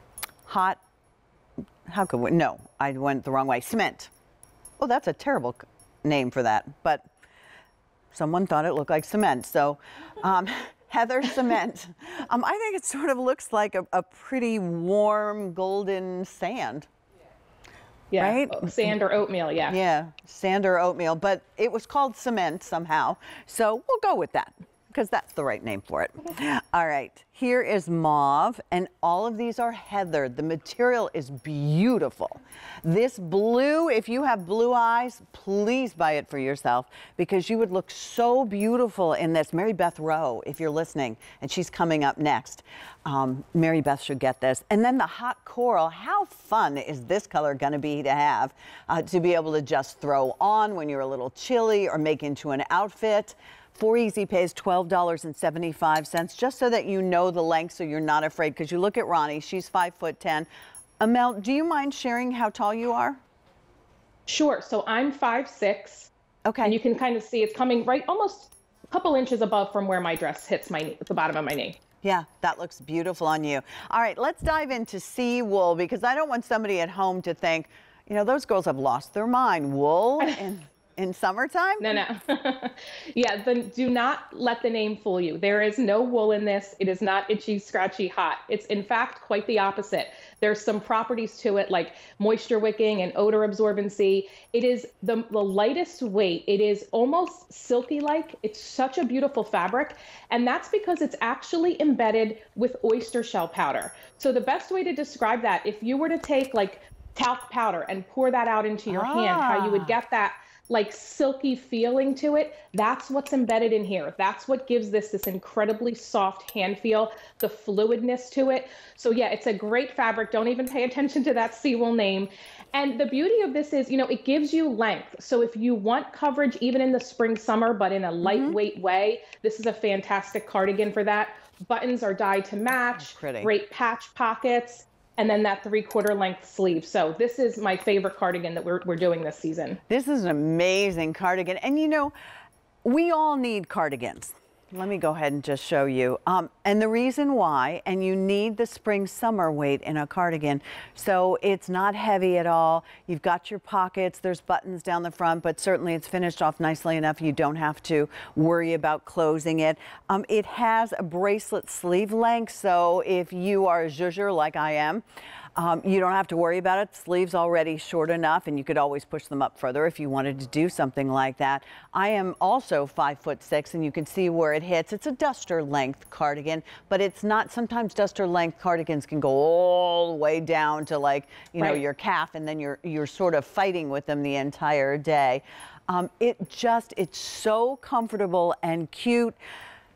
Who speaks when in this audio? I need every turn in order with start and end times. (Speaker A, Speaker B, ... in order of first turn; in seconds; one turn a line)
Speaker A: 0.5-0.8
Speaker A: 1.9-4.1
Speaker A: 4.8-7.0
Speaker A: 8.1-16.9
Speaker B: 18.1-19.8
Speaker A: 18.2-18.9
Speaker A: 19.7-60.5
Speaker A: 61.0-63.2
Speaker B: 64.3-66.1
Speaker A: 66.5-66.8
Speaker B: 66.6-71.8
Speaker A: 72.0-81.9
Speaker B: 81.8-139.8
Speaker A: 108.9-110.0
Speaker A: 128.2-128.6
Speaker A: 133.0-133.5
Speaker A: 139.9-142.1
Speaker A: 142.8-165.0
Speaker A: 165.6-189.4
Speaker B: 181.6-181.8